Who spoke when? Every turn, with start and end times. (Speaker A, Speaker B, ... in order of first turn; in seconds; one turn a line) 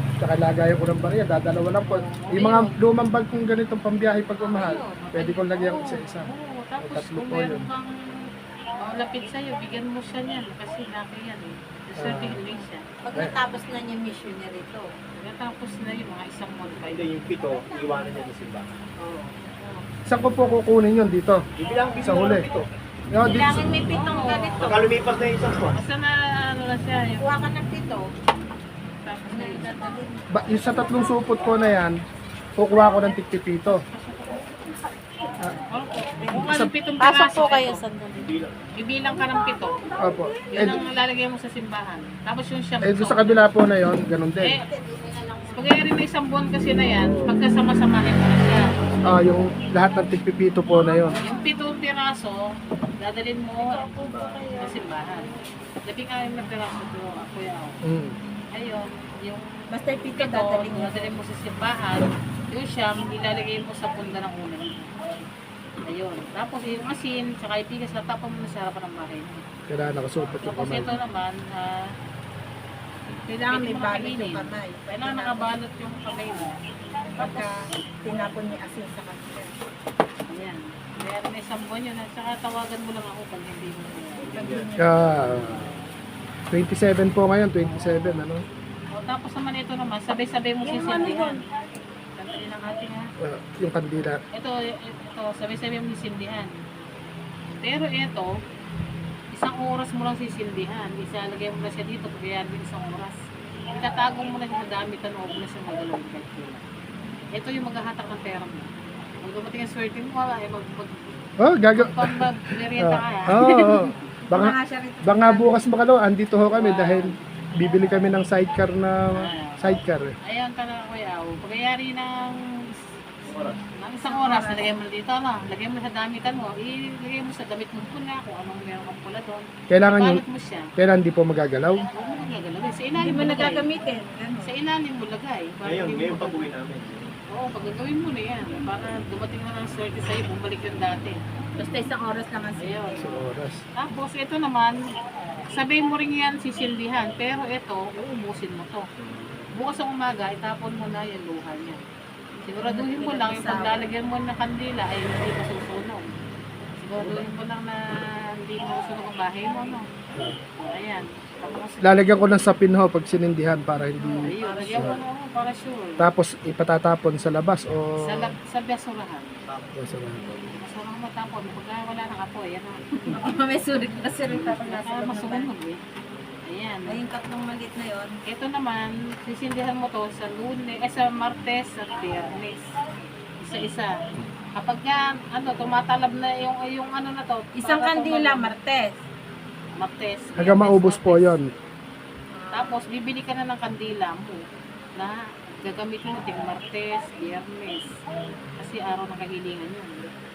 Speaker A: 0.2-6.3
Speaker B: 1.8-2.8
Speaker B: 4.5-7.9
Speaker A: 6.8-7.7
Speaker B: 8.8-12.8
Speaker A: 11.9-12.4
Speaker C: 13.0-14.9
Speaker B: 15.2-17.1
Speaker D: 16.7-18.7
Speaker C: 17.4-18.4
Speaker B: 19.0-19.3
Speaker C: 19.4-19.9
Speaker A: 20.1-21.4
Speaker D: 21.6-22.7
Speaker A: 22.0-22.5
Speaker A: 23.1-23.6
Speaker B: 23.2-24.9
Speaker C: 23.5-24.8
Speaker D: 24.6-25.8
Speaker B: 25.7-27.4
Speaker C: 27.2-28.1
Speaker B: 29.0-30.0
Speaker C: 29.3-31.2
Speaker A: 30.3-32.0
Speaker A: 32.6-33.8
Speaker B: 33.7-34.8
Speaker B: 35.7-37.8
Speaker A: 36.3-36.7
Speaker C: 37.0-38.3
Speaker D: 38.2-38.5
Speaker B: 38.8-39.8
Speaker C: 39.2-40.8
Speaker A: 40.0-40.8
Speaker B: 40.5-43.6
Speaker A: 42.8-44.5
Speaker C: 44.6-45.8
Speaker B: 45.5-48.7
Speaker A: 46.9-47.3
Speaker A: 49.0-51.2
Speaker C: 50.8-51.5
Speaker B: 51.1-52.4
Speaker B: 53.0-53.8
Speaker C: 53.6-55.5
Speaker D: 54.0-54.4
Speaker B: 54.6-55.2
Speaker B: 55.9-57.8
Speaker A: 57.9-58.1
Speaker B: 58.5-59.4
Speaker C: 59.7-61.2
Speaker B: 60.1-65.2
Speaker B: 65.9-69.4
Speaker A: 69.7-70.9
Speaker B: 70.3-71.8
Speaker C: 73.1-75.5
Speaker B: 73.5-76.5
Speaker B: 77.2-77.5
Speaker C: 77.2-79.5
Speaker B: 80.3-84.3
Speaker D: 84.2-84.7
Speaker C: 84.3-85.6
Speaker A: 84.8-85.7
Speaker B: 85.3-85.8
Speaker A: 86.5-88.4
Speaker B: 87.5-88.2
Speaker B: 88.9-91.4
Speaker C: 90.6-91.4
Speaker B: 92.2-93.0
Speaker A: 93.2-94.2
Speaker B: 94.3-96.5
Speaker B: 97.6-98.3
Speaker B: 99.3-103.2
Speaker B: 103.7-106.6
Speaker B: 107.4-108.7
Speaker B: 109.2-111.1
Speaker A: 111.4-112.1
Speaker B: 111.8-113.9
Speaker A: 112.8-119.0
Speaker C: 114.3-115.5
Speaker B: 116.5-117.2
Speaker B: 119.2-119.6
Speaker A: 119.6-120.1
Speaker B: 120.2-122.3
Speaker D: 123.2-123.6
Speaker B: 123.7-130.7
Speaker C: 124.0-124.7
Speaker A: 129.7-130.2
Speaker A: 130.8-131.9
Speaker B: 131.9-133.7
Speaker C: 133.0-134.6
Speaker B: 134.4-136.5
Speaker D: 135.6-137.2
Speaker B: 137.3-141.2
Speaker C: 141.6-143.1
Speaker B: 142.6-143.2
Speaker A: 143.0-143.6
Speaker B: 143.8-144.8
Speaker B: 145.5-148.8
Speaker D: 149.0-149.5
Speaker B: 149.5-151.8
Speaker B: 152.5-156.0
Speaker C: 152.6-153.9
Speaker B: 156.8-157.8
Speaker A: 157.0-157.2
Speaker B: 158.4-159.8
Speaker B: 160.6-162.1
Speaker A: 161.8-165.0
Speaker C: 164.0-165.0
Speaker B: 164.3-166.0
Speaker A: 166.0-168.3
Speaker B: 168.0-169.3
Speaker D: 169.4-169.8
Speaker A: 169.8-170.5
Speaker B: 170.6-173.2
Speaker C: 173.1-175.5
Speaker B: 174.3-175.8
Speaker B: 176.5-177.0
Speaker C: 176.9-178.1
Speaker B: 178.3-182.7
Speaker B: 183.4-183.9
Speaker B: 184.6-188.5
Speaker C: 187.6-189.0
Speaker B: 189.8-191.4
Speaker A: 190.4-191.5
Speaker C: 192.3-192.8
Speaker B: 192.5-194.4
Speaker B: 195.0-198.0
Speaker B: 198.6-200.1